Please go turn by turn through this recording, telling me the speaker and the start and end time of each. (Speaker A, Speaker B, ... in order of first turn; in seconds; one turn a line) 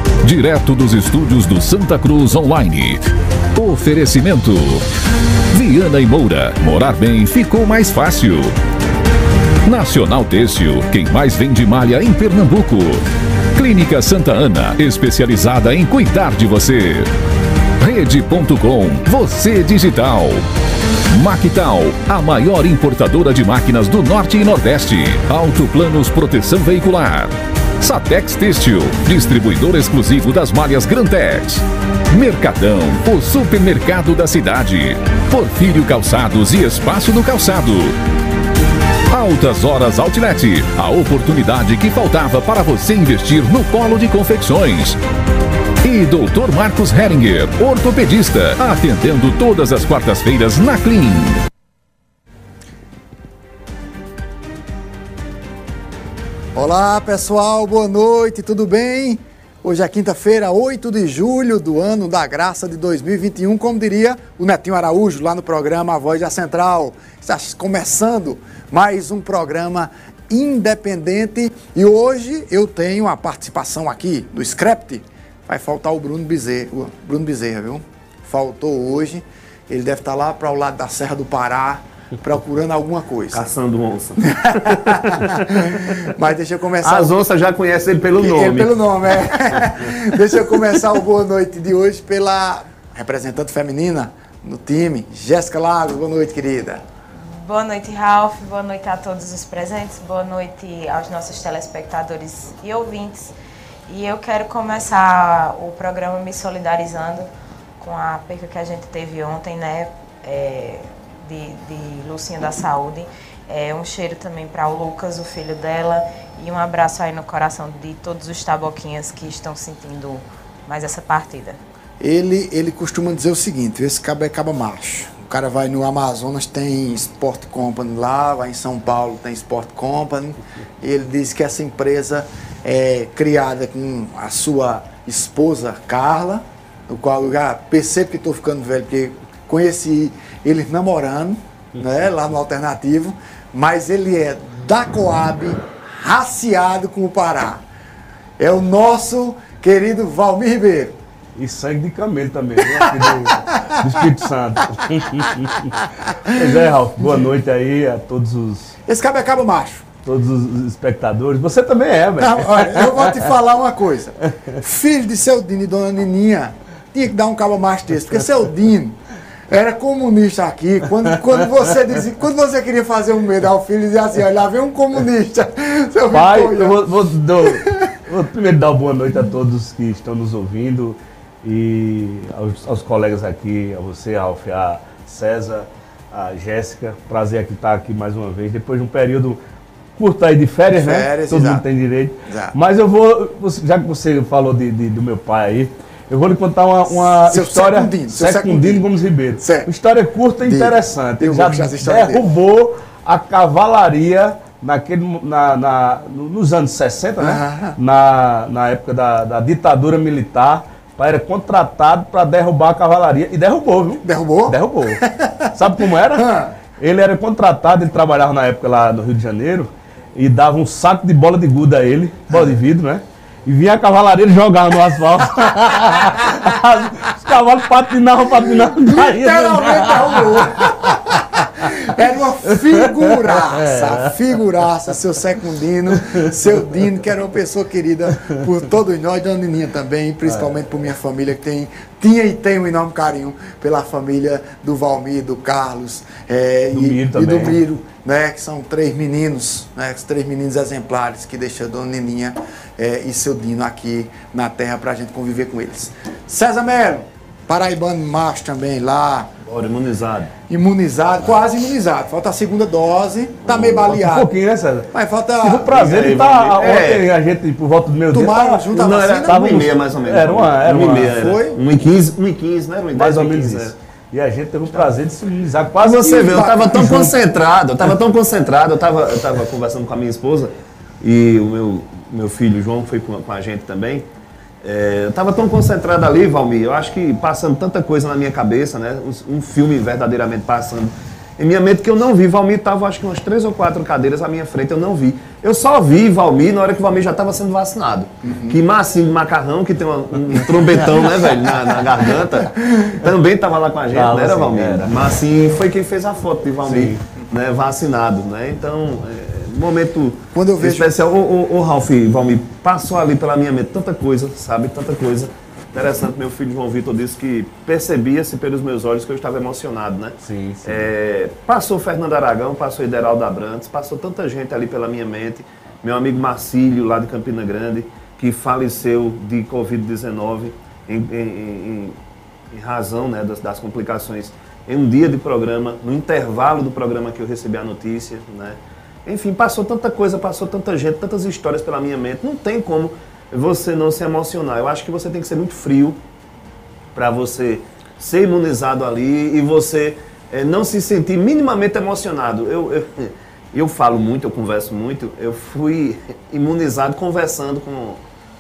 Speaker A: 0.2-4.9
Speaker A: 5.5-8.5
Speaker A: 9.7-13.0
Speaker A: 13.5-17.1
Speaker A: 17.8-20.4
Speaker A: 21.1-38.0
Speaker A: 39.1-45.0
Speaker A: 45.8-51.4
Speaker B: 56.5-83.5
Speaker C: 83.3-86.1
Speaker B: 84.2-87.3
Speaker C: 86.8-88.7
Speaker B: 88.2-96.8
Speaker D: 97.3-103.3
Speaker D: 103.9-121.6
Speaker B: 122.0-147.6
Speaker B: 148.4-151.0
Speaker E: 151.4-158.8
Speaker B: 152.7-154.0
Speaker B: 156.1-157.3
Speaker B: 158.9-159.8
Speaker E: 160.1-163.3
Speaker B: 162.2-176.8
Speaker E: 176.1-189.4
Speaker B: 177.4-177.9
Speaker E: 190.0-215.0
Speaker B: 190.7-191.7
Speaker B: 192.3-192.6
Speaker B: 197.0-199.7
Speaker B: 200.4-202.2
Speaker B: 207.2-207.8
Speaker B: 214.0-215.6
Speaker E: 215.5-231.8
Speaker B: 216.1-216.5
Speaker B: 228.3-259.3
Speaker E: 232.6-234.1
Speaker E: 236.0-236.3
Speaker E: 246.7-247.6
Speaker C: 259.4-260.3
Speaker B: 260.5-264.3
Speaker E: 263.5-264.9
Speaker B: 264.9-265.8
Speaker E: 265.4-271.2
Speaker C: 265.7-267.1
Speaker B: 268.1-269.5
Speaker C: 268.7-273.7
Speaker B: 271.1-271.6
Speaker E: 272.9-277.2
Speaker C: 275.8-284.1
Speaker B: 276.3-277.0
Speaker C: 284.6-332.0
Speaker B: 298.2-298.6
Speaker B: 300.3-303.0
Speaker E: 303.9-305.0
Speaker E: 306.6-307.1
Speaker B: 310.3-310.9
Speaker E: 320.2-320.9
Speaker C: 332.5-346.0
Speaker C: 346.9-358.0